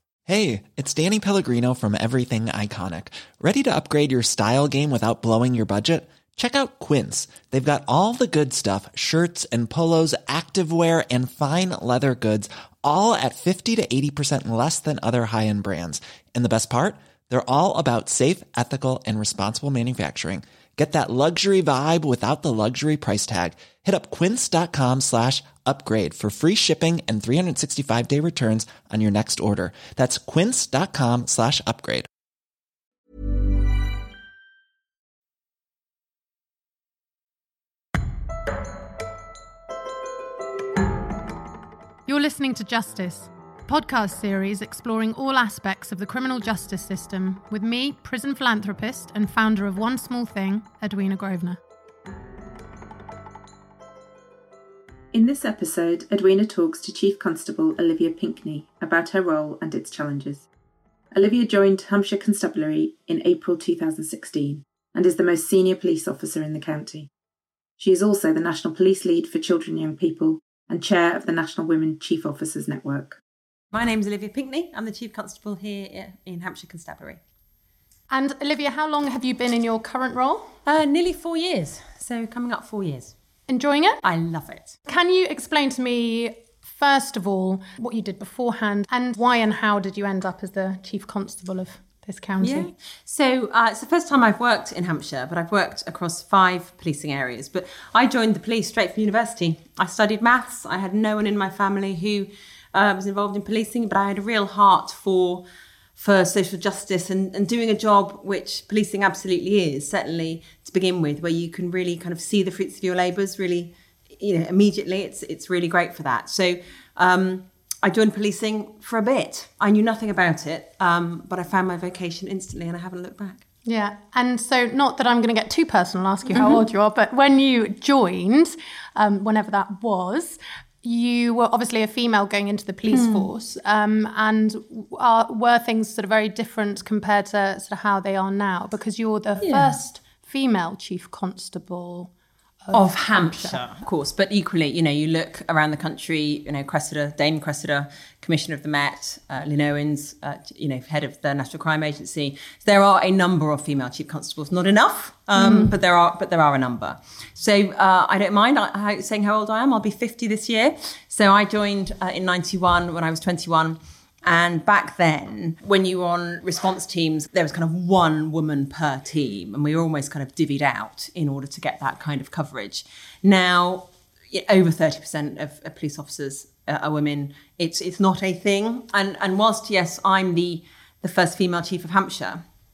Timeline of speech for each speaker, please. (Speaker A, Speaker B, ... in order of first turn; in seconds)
Speaker A: 0.3-32.1
Speaker B: 42.1-51.6, 78.1-80.5, 83.5-84.0, 84.9-92.7, 123.7-142.1, 142.7-143.6, 155.4-155.7
Speaker C: 55.1-60.5, 61.1-67.1, 67.8-73.2
Speaker D: 73.7-77.2, 80.7-83.2, 84.0-84.8, 92.4-105.5, 106.0-123.4, 126.3-126.7, 132.9-133.3, 139.4-139.7, 142.7-182.4